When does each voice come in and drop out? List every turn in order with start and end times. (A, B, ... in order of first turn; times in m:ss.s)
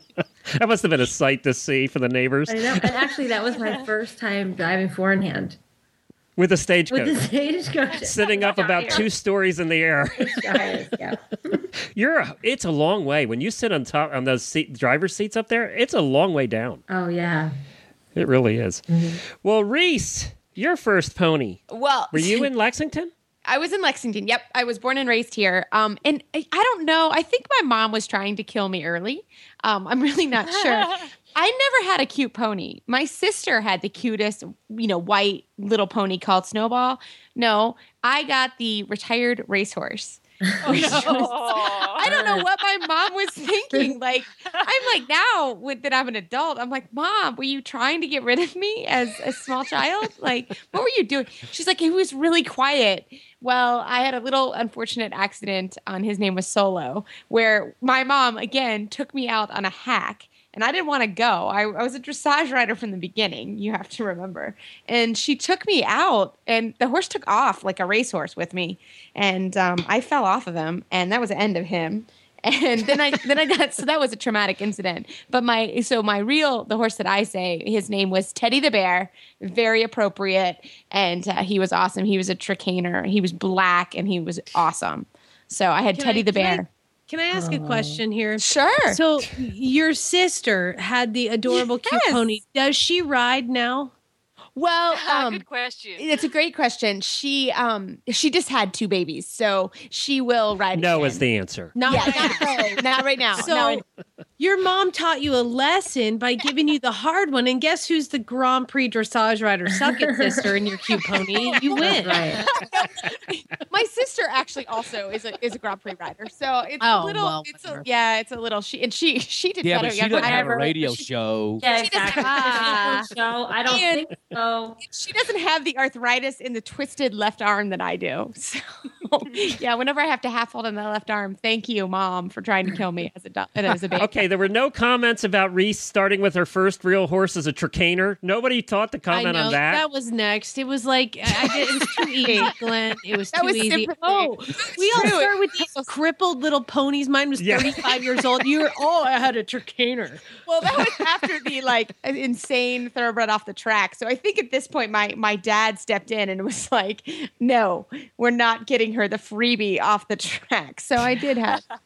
0:00.6-0:02.9 A
0:02.5-0:05.6 B
0:06.4-0:07.2 A
0:06.9-0:09.1 B
0:08.0-0:10.6 A
0:10.2-0:11.6 B
0:11.9-0:16.8 A
0:16.9-0:17.5 B
0:18.1-0:18.8 A
0:18.9-0:19.2 B
0:19.4-0:23.1 A
0:21.7-0:22.5 C
0:23.4-1:26.7 C
0:40.5-0:41.5 B
0:40.7-0:42.1 D
0:42.0-0:42.5 B
1:25.9-1:33.9 E
1:27.3-1:28.0 B
1:28.4-1:29.0 C
1:31.5-1:32.2 C
1:34.5-1:35.4 C
1:34.9-1:36.1 D
1:36.0-1:41.2 C
1:40.7-1:41.7 A
1:41.7-1:43.8 E
1:41.8-1:43.8 C
1:44.4-1:52.3 E
1:51.3-2:01.0 C
1:51.8-1:52.4 B
1:56.8-1:57.9 E
1:59.6-2:01.6 F
2:00.1-2:00.7 B
2:01.6-2:04.8 B
2:01.7-2:03.1 C
2:02.4-2:02.7 E
2:03.6-2:04.1 C
2:04.8-2:14.1 C
2:14.0-2:19.8 A
2:19.1-2:31.0 E
2:21.4-2:22.7 C
2:23.3-2:25.9 C
2:27.4-2:27.8 A
2:30.4-2:41.6 C